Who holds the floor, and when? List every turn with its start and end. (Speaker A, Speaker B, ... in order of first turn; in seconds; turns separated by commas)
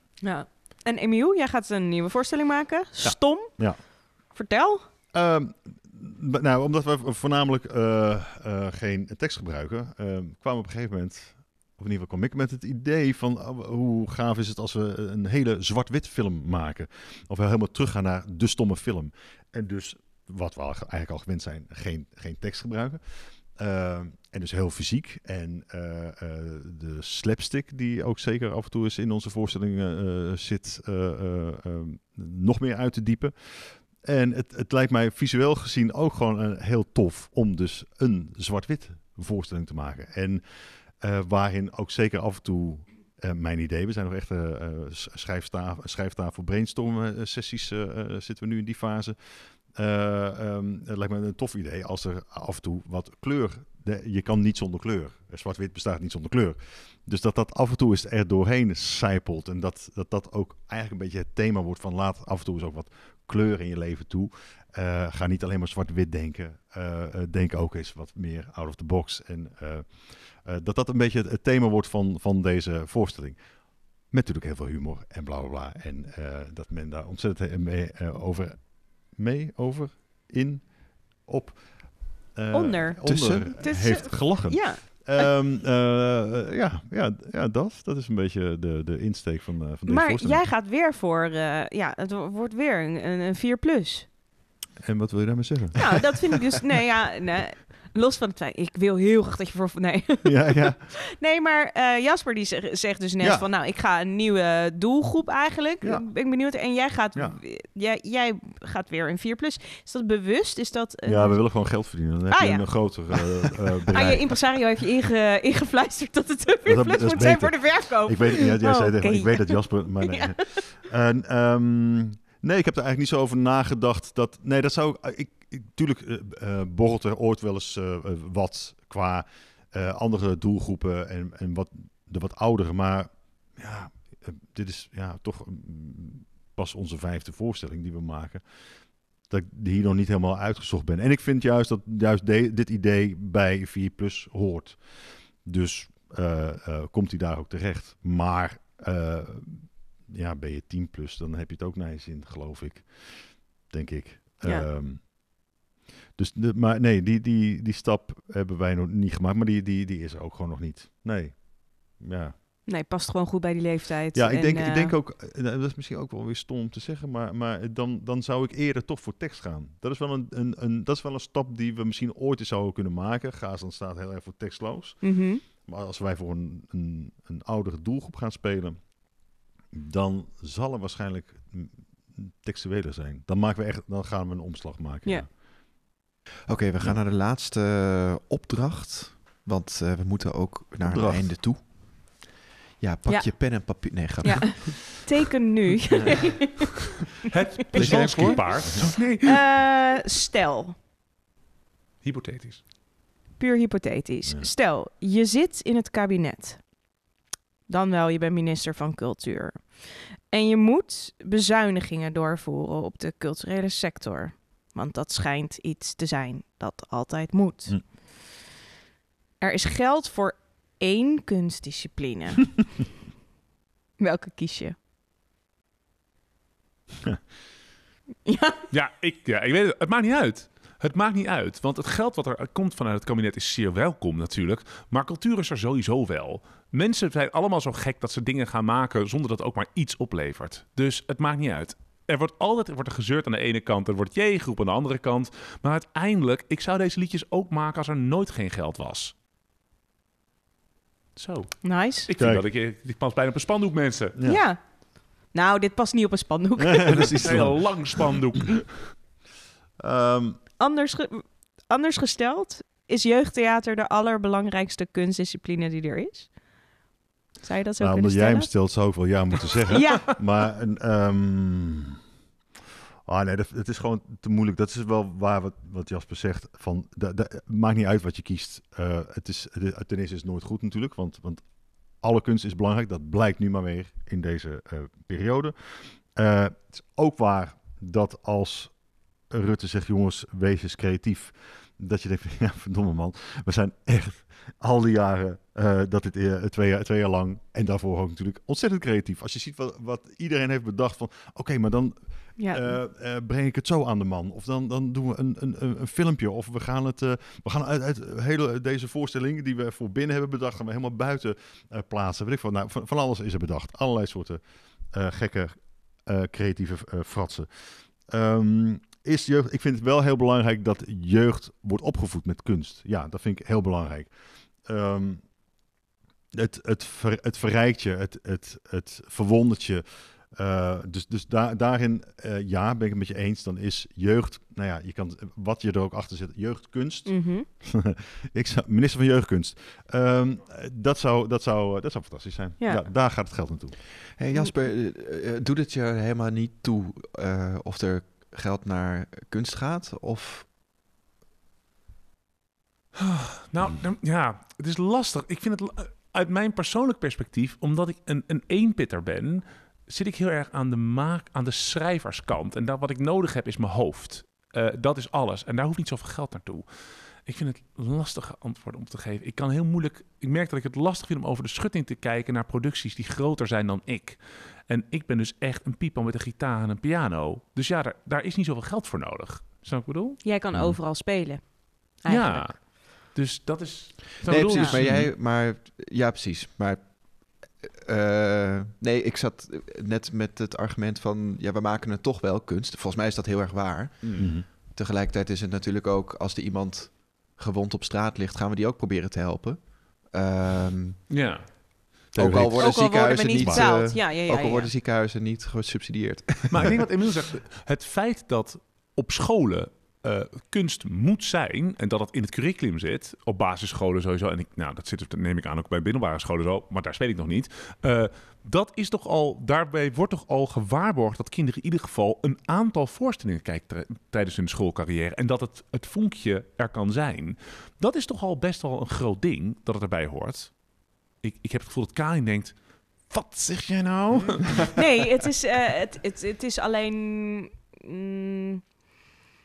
Speaker A: 0.2-4.8, Speaker B: 3.0-3.8, Speaker B: 5.1-90.4, Speaker A: 82.5-85.3, Speaker C: 83.0-83.5, Speaker A: 89.9-94.1, Speaker B: 94.8-96.1, Speaker A: 95.8-113.2, Speaker B: 100.2-100.9, Speaker B: 103.2-103.5, Speaker B: 105.8-106.1, Speaker B: 111.0-114.3, Speaker A: 113.9-120.6, Speaker B: 116.6-138.4, Speaker B: 139.2-155.1, Speaker A: 154.4-154.7, Speaker B: 156.2-162.3, Speaker A: 162.7-164.9, Speaker B: 164.1-179.1, Speaker A: 175.0-175.4, Speaker B: 179.7-185.4, Speaker C: 186.5-191.7, Speaker B: 190.8-191.4, Speaker C: 192.8-194.9, Speaker A: 193.1-196.7, Speaker D: 197.2-199.4, Speaker A: 197.7-200.7, Speaker C: 197.7-198.8, Speaker D: 202.0-202.6, Speaker A: 203.4-206.7, Speaker A: 207.7-218.1, Speaker A: 219.4-222.7, Speaker A: 224.0-224.8, Speaker A: 228.2-228.6, Speaker D: 228.7-249.1, Speaker D: 251.2-254.2, Speaker A: 251.6-252.1, Speaker B: 252.2-252.4, Speaker B: 254.2-254.4, Speaker A: 254.2-257.4, Speaker B: 256.7-258.0, Speaker D: 256.9-258.9, Speaker B: 259.8-260.4, Speaker A: 260.6-266.4, Speaker A: 267.4-269.0, Speaker B: 267.8-272.0, Speaker A: 269.7-270.1, Speaker B: 273.0-324.1, Speaker A: 302.4-302.8, Speaker B: 324.6-325.3, Speaker B: 326.3-343.8, Speaker A: 337.1-337.5, Speaker A: 342.6-342.8, Speaker C: 344.1-350.5, Speaker D: 353.0-366.6, Speaker D: 367.2-380.2, Speaker A: 380.2-382.5, Speaker B: 380.5-380.8, Speaker D: 382.1-384.9, Speaker C: 384.2-401.6, Speaker A: 384.5-384.8, Speaker B: 384.8-385.1, Speaker B: 394.1-394.5, Speaker D: 401.1-402.1, Speaker B: 402.1-403.7, Speaker C: 402.1-406.7, Speaker A: 402.6-404.7, Speaker D: 406.5-434.7, Speaker A: 434.7-438.6